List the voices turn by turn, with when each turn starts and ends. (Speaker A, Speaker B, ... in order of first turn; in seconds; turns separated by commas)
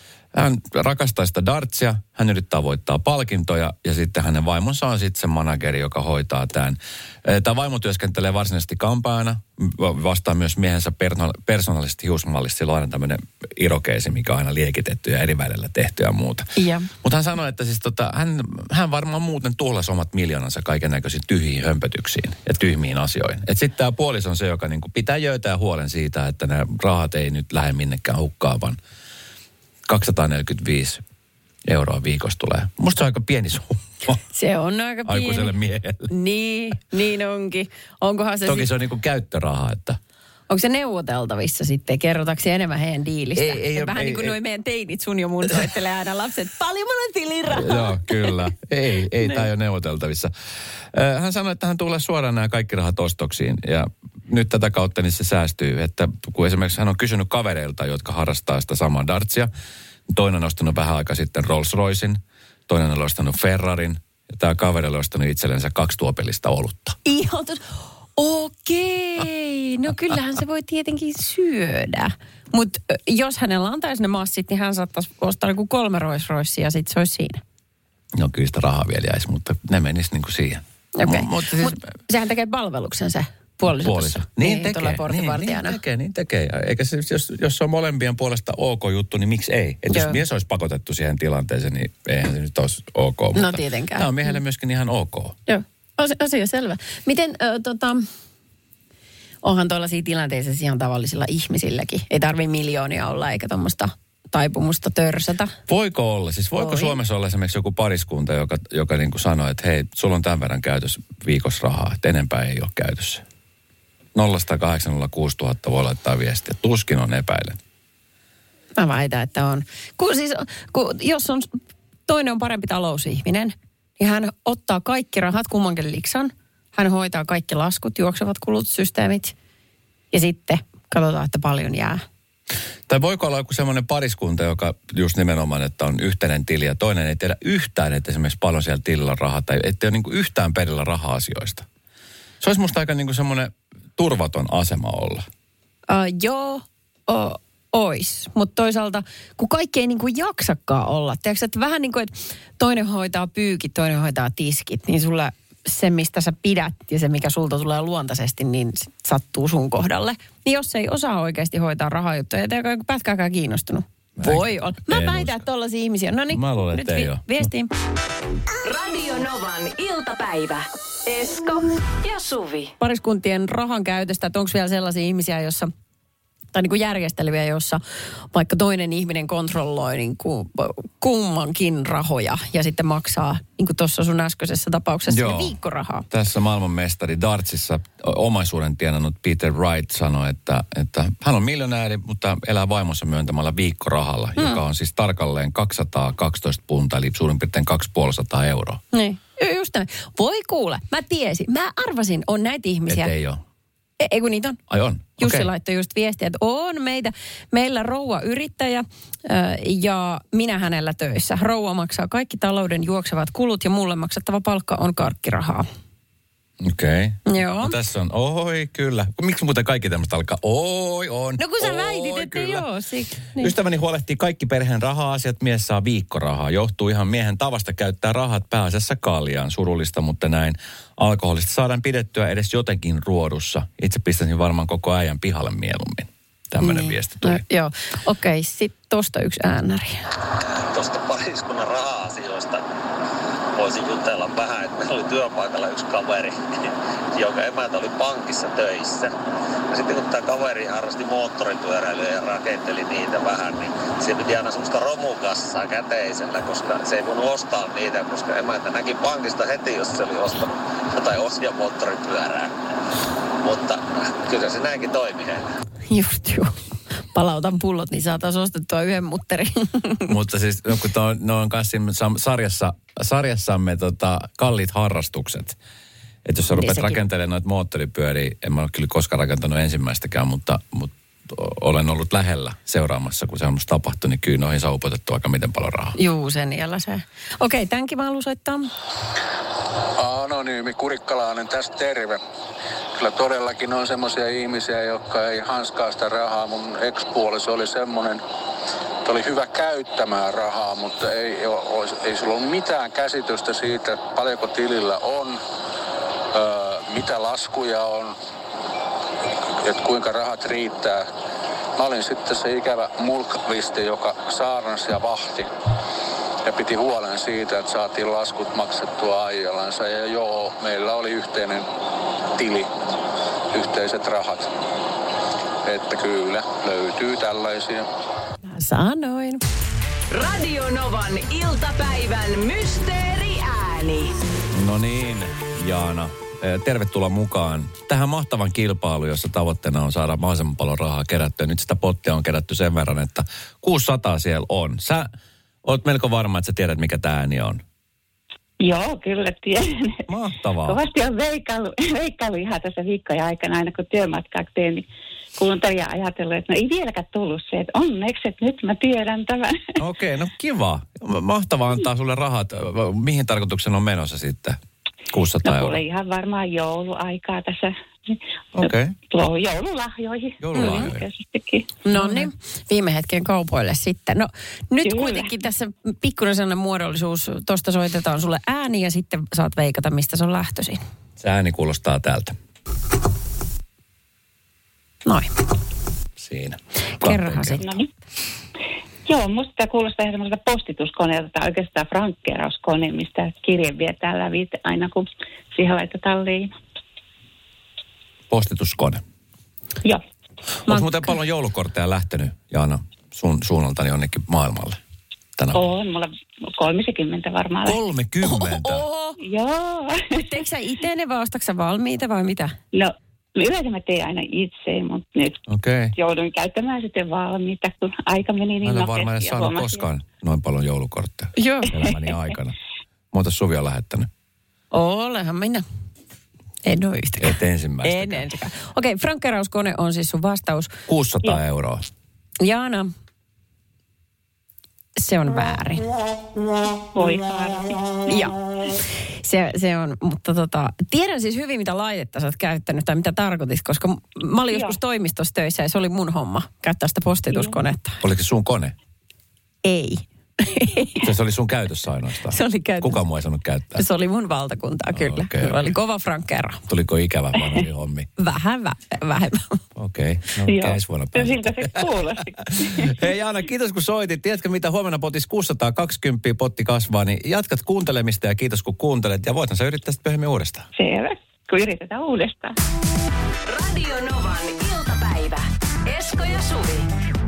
Speaker A: 0.3-16.5, Speaker B: 16.6-16.9, Speaker A: 17.0-28.8, Speaker A: 29.9-31.0, Speaker A: 31.6-34.2, Speaker B: 34.3-35.5, Speaker A: 35.1-36.1, Speaker B: 36.1-38.7, Speaker A: 38.5-40.0, Speaker B: 40.5-48.5, Speaker A: 43.4-44.4, Speaker A: 47.5-59.5, Speaker B: 49.2-49.5, Speaker A: 60.1-67.0, Speaker B: 67.0-77.4, Speaker A: 78.2-81.8, Speaker B: 81.0-85.8, Speaker A: 83.7-95.3, Speaker B: 89.9-90.2, Speaker B: 93.3-94.4, Speaker B: 95.5-98.1, Speaker B: 99.4-105.5, Speaker A: 105.7-113.2, Speaker B: 106.6-107.0, Speaker A: 114.2-117.6, Speaker B: 118.8-129.3, Speaker B: 130.1-132.0, Speaker A: 132.9-141.7, Speaker A: 142.4-145.3, Speaker B: 145.9-167.7, Speaker A: 164.2-165.4, Speaker A: 166.3-167.5, Speaker C: 168.6-172.7, Speaker B: 172.8-175.7, Speaker B: 176.5-186.1, Speaker A: 185.1-185.6, Speaker A: 186.1-198.8, Speaker B: 198.9-203.1, Speaker A: 202.9-203.4, Speaker B: 204.0-204.6, Speaker A: 204.7-205.5, Speaker B: 205.2-215.7, Speaker A: 216.6-222.7, Speaker B: 217.3-217.8, Speaker B: 221.4-223.5, Speaker A: 223.3-237.4, Speaker B: 236.6-240.1, Speaker D: 240.5-242.7, Speaker D: 243.6-246.4, Speaker D: 247.2-249.2, Speaker D: 249.7-262.5, Speaker D: 263.4-265.5, Speaker B: 265.9-270.1, Speaker A: 270.1-275.6, Speaker A: 276.2-286.0, Speaker B: 276.5-277.0, Speaker B: 286.0-288.7, Speaker E: 290.0-292.2, Speaker E: 293.0-298.2, Speaker E: 299.1-305.4, Speaker E: 306.3-308.1, Speaker E: 309.6-311.1, Speaker E: 311.8-315.5, Speaker E: 316.4-321.6, Speaker E: 322.4-322.7, Speaker E: 323.5-324.5, Speaker E: 325.6-327.9, Speaker B: 328.5-329.4, Speaker C: 330.1-334.1, Speaker A: 334.5-345.1, Speaker A: 345.6-347.6, Speaker F: 348.6-350.0, Speaker A: 350.1-350.8, Speaker F: 350.6-359.8, Speaker A: 359.8-364.6, Speaker A: 365.1-365.8, Speaker F: 365.4-372.3, Speaker A: 368.6-368.9, Speaker A: 370.4-371.1, Speaker B: 370.5-370.9, Speaker B: 371.9-380.8, Speaker F: 374.8-375.3, Speaker A: 381.2-382.4, Speaker B: 385.1-385.3, Speaker A: 386.2-387.6, Speaker B: 387.0-387.8, Speaker F: 387.6-387.8, Speaker F: 389.1-396.6, Speaker A: 398.3-399.0, Speaker A: 400.6-404.8, Speaker B: 400.7-401.1, Speaker A: 405.4-405.6, Speaker F: 405.5-407.8, Speaker A: 407.6-408.9, Speaker B: 408.3-409.2, Speaker F: 409.2-410.2, Speaker B: 410.1-412.6, Speaker F: 412.7-415.4, Speaker A: 415.5-415.9, Speaker F: 415.9-419.8, Speaker A: 418.6-422.6, Speaker B: 421.4-421.8, Speaker A: 423.1-424.1, Speaker B: 424.7-425.6, Speaker B: 426.6-430.8, Speaker A: 427.2-428.3, Speaker A: 430.9-431.8, Speaker B: 432.4-432.9, Speaker B: 435.0-435.9, Speaker F: 436.9-437.8, Speaker B: 438.1-438.4, Speaker B: 439.2-448.0, Speaker A: 448.0-448.8, Speaker B: 449.6-451.1, Speaker A: 451.0-453.8, Speaker B: 452.3-453.0, Speaker B: 453.8-456.6, Speaker A: 454.9-455.8, Speaker A: 456.7-458.1, Speaker B: 458.2-459.6, Speaker A: 459.8-470.7, Speaker F: 460.4-463.1, Speaker F: 470.8-472.6, Speaker C: 473.5-476.9